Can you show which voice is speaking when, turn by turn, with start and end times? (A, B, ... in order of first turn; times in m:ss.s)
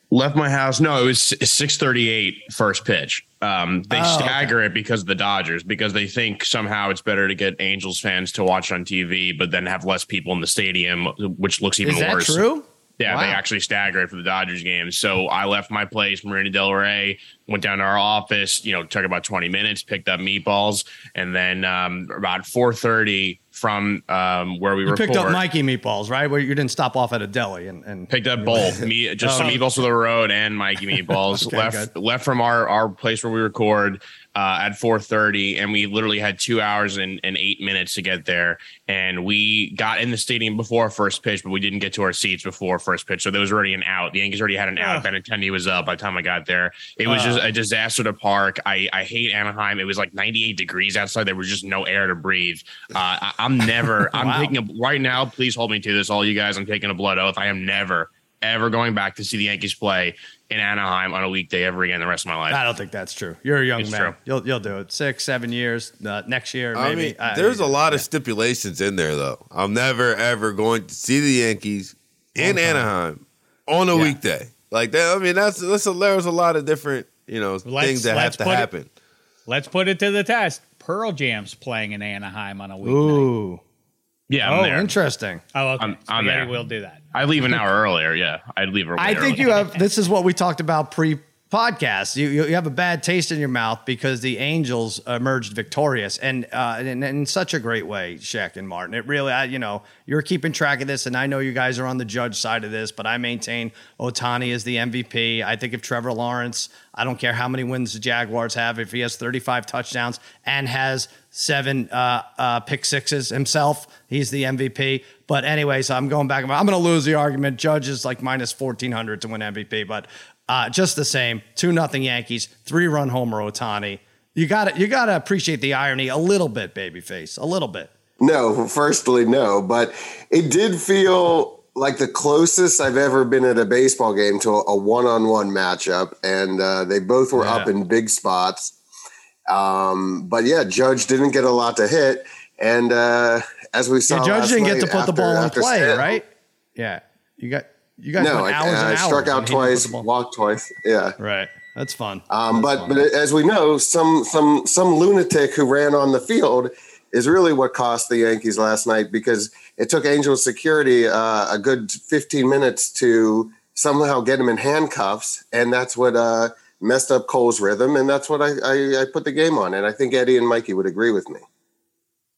0:00.1-0:12.4 A
0:03.9-0:04.6 B
0:11.8-0:13.4 B
0:13.0-0:25.4 A
0:24.9-0:29.6 B
0:28.1-1:02.6 A
0:29.4-0:29.6 C
0:31.3-0:31.9 B
0:44.8-0:45.0 C
0:47.1-0:47.5 B
0:54.1-0:54.5 B
1:02.5-1:08.0 B
1:03.8-1:04.1 A
1:06.7-1:18.9 D
1:12.4-1:12.8 B
1:17.6-1:18.7 C
1:19.5-1:23.3 C
1:22.8-1:23.6 B
1:24.3-1:24.9 A
1:24.4-1:25.4 B
1:25.5-1:27.0 C
1:25.8-1:26.5 A
1:27.1-1:29.6 A
1:29.0-2:07.9 B
1:29.5-1:29.8 C
2:08.2-2:18.8 E
2:17.4-2:17.7 B
2:19.5-2:26.2 E
2:24.1-2:26.2 B
2:26.8-2:30.1 B
2:28.2-2:31.2 E
2:31.2-2:33.0 B
2:32.3-2:51.4 E